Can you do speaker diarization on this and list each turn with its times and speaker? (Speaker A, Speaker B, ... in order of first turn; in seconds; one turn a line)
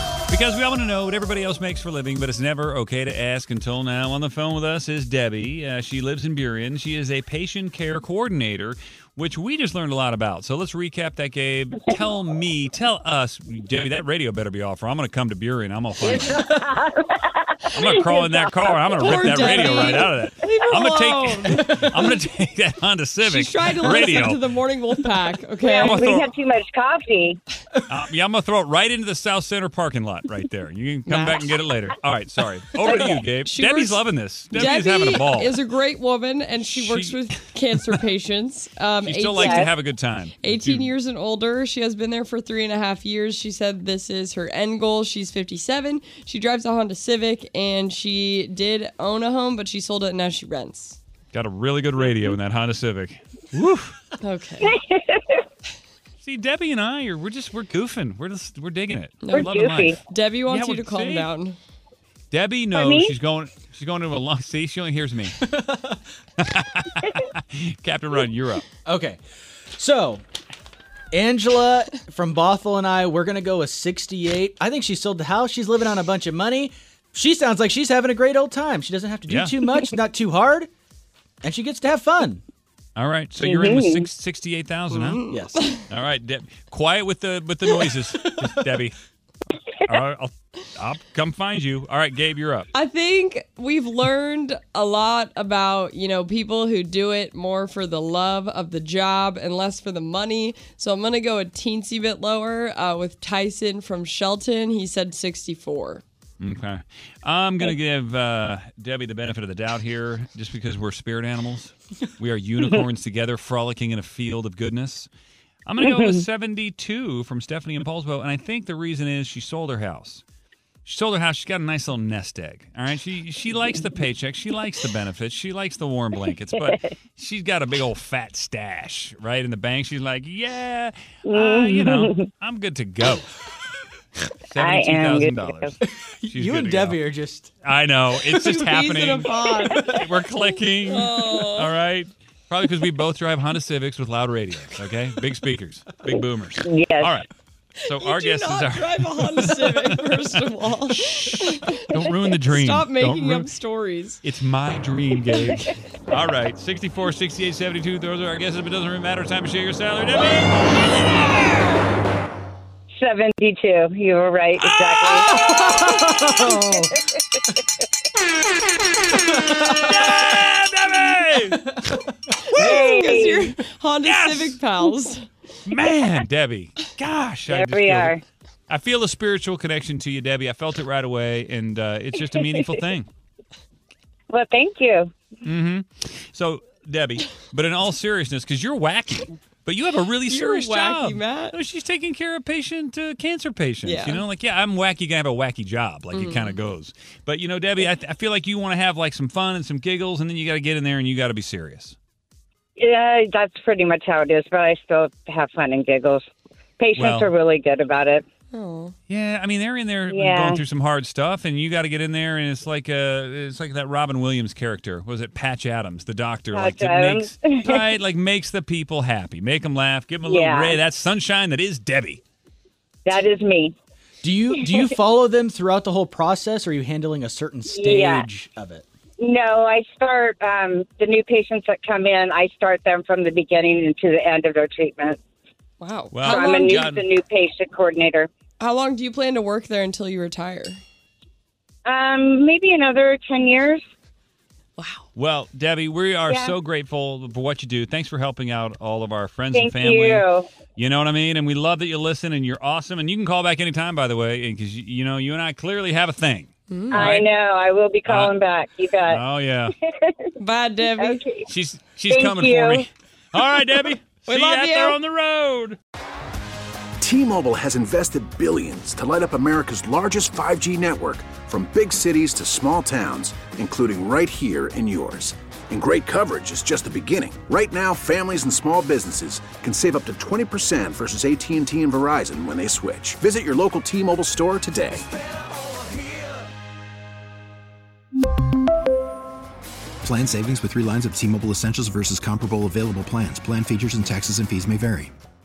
Speaker A: 0.3-16.5
Speaker B: 16.1-17.4
Speaker A: 17.7-24.5
Speaker C: 19.0-21.7
Speaker C: 23.2-26.0
Speaker B: 25.6-27.4
Speaker A: 25.8-26.4
Speaker A: 27.9-35.6
Speaker C: 31.1-31.5
Speaker B: 32.9-33.2
Speaker C: 33.4-51.0
Speaker A: 36.7-37.3
Speaker A: 39.0-40.9
Speaker B: 39.4-39.7
Speaker A: 51.3-54.0
Speaker C: 54.2-54.8
Speaker B: 54.7-55.4
Speaker A: 56.2-61.3
Speaker C: 59.2-61.6
Speaker B: 59.3-60.0
Speaker A: 62.3-65.5
Speaker B: 62.7-63.1
Speaker D: 65.5-66.0
Speaker A: 66.4-68.7
Speaker D: 68.9-69.2
Speaker D: 69.8-70.2
Speaker D: 71.1-80.7
Speaker A: 79.3-79.5
Speaker D: 81.4-82.4
Speaker A: 83.0-85.2
Speaker B: 83.4-84.0
Speaker C: 85.0-85.8
Speaker D: 85.1-85.7
Speaker A: 85.9-89.0
Speaker A: 89.8-92.7
Speaker C: 92.7-106.0
Speaker A: 106.4-115.1
Speaker A: 115.7-120.2
Speaker B: 115.9-116.2
Speaker A: 120.8-133.3
Speaker B: 131.3-132.2
Speaker A: 134.4-135.8
Speaker B: 134.6-135.7
Speaker D: 135.9-137.5
Speaker A: 136.3-137.0
Speaker A: 137.6-147.3
Speaker C: 138.4-139.9
Speaker D: 139.7-140.0
Speaker C: 140.9-141.7
Speaker B: 146.6-147.1
Speaker A: 147.8-153.5
Speaker C: 147.8-154.2
Speaker A: 154.2-161.8
Speaker B: 162.9-165.3
Speaker A: 164.6-165.3
Speaker D: 165.1-167.0
Speaker A: 169.3-171.7
Speaker C: 172.5-175.3
Speaker B: 172.6-173.5
Speaker A: 174.0-174.6
Speaker A: 175.7-183.1
Speaker B: 177.5-178.2
Speaker B: 184.3-185.1
Speaker A: 185.4-202.0
Speaker C: 190.3-191.6
Speaker C: 193.8-194.2
Speaker C: 196.1-196.6
Speaker B: 202.8-206.2
Speaker B: 206.8-208.3
Speaker A: 206.9-207.3
Speaker C: 208.5-208.9
Speaker A: 209.1-222.2
Speaker B: 210.1-210.6
Speaker B: 216.5-217.7
Speaker B: 220.2-220.8
Speaker B: 223.1-223.8
Speaker D: 224.2-228.8
Speaker B: 227.7-228.3
Speaker B: 229.2-235.2
Speaker C: 235.8-236.8
Speaker A: 236.1-237.1
Speaker B: 236.3-238.3
Speaker C: 238.6-240.8
Speaker B: 241.8-243.8
Speaker C: 244.8-245.0
Speaker A: 245.2-257.3
Speaker B: 246.3-246.5
Speaker B: 249.5-250.5
Speaker C: 256.7-257.1
Speaker B: 256.9-259.2
Speaker A: 258.1-258.4
Speaker A: 259.1-259.7
Speaker B: 259.9-260.2
Speaker C: 260.4-261.2
Speaker B: 261.0-261.5
Speaker A: 261.5-265.8
Speaker B: 262.1-262.9
Speaker C: 264.2-265.0
Speaker E: 267.0-285.1
Speaker F: 290.0-295.1